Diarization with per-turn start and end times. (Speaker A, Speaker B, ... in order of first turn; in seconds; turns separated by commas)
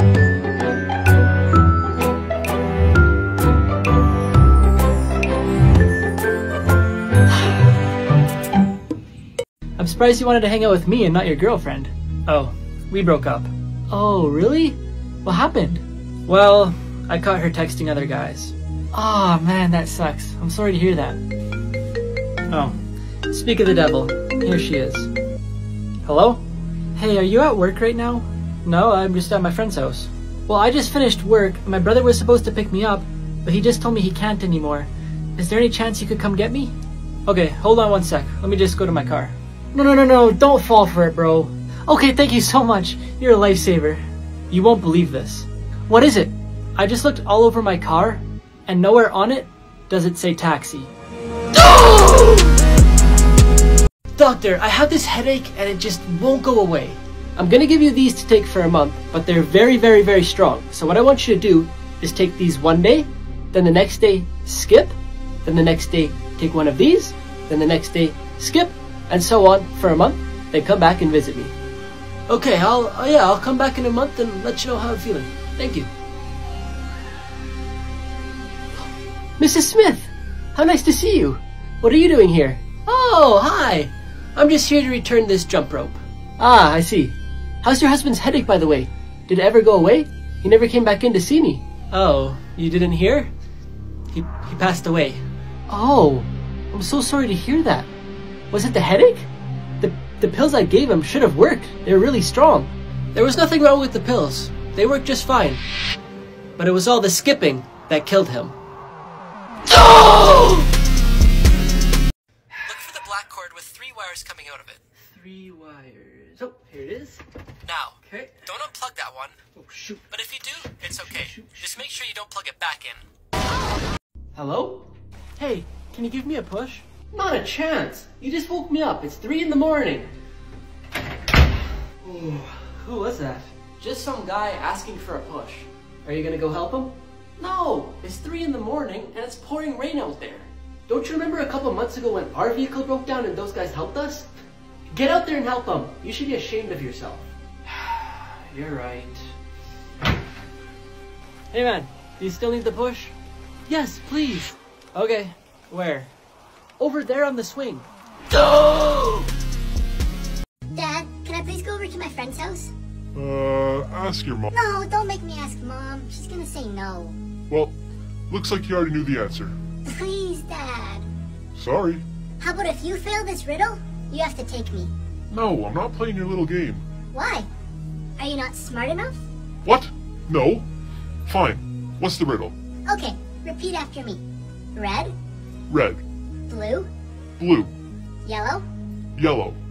Speaker A: 9.8-21.2, Speaker A: 22.5-25.1, Speaker A: 26.1-26.4, Speaker A: 26.9-36.7, Speaker A: 37.3-50.9, Speaker A: 51.6-52.5, Speaker A: 54.2-71.5, Speaker A: 72.3-75.9, Speaker A: 79.4-93.3, Speaker A: 94.1-97.9, Speaker A: 98.5-105.6, Speaker A: 106.6-108.6, Speaker A: 109.7-110.7, Speaker A: 112.6-123.0, Speaker A: 124.3-130.1, Speaker A: 132.0-144.3, Speaker A: 144.9-149.3, Speaker A: 151.5-153.1, Speaker A: 153.7-156.1, Speaker A: 156.8-159.2, Speaker B: 160.7-162.7, Speaker C: 163.2-164.5, Speaker B: 164.5-167.2, Speaker C: 167.5-167.8, Speaker C: 168.3-169.6, Speaker B: 169.8-171.1, Speaker C: 171.6-172.0, Speaker B: 172.4-174.9, Speaker C: 175.3-176.8, Speaker B: 177.1-177.5, Speaker B: 178.2-179.2, Speaker C: 179.7-180.7, Speaker C: 181.3-182.6, Speaker B: 182.9-184.2, Speaker B: 184.8-185.1, Speaker C: 185.7-186.0, Speaker B: 186.5-186.9, Speaker C: 187.4-187.7, Speaker B: 188.2-188.6, Speaker C: 189.2-189.6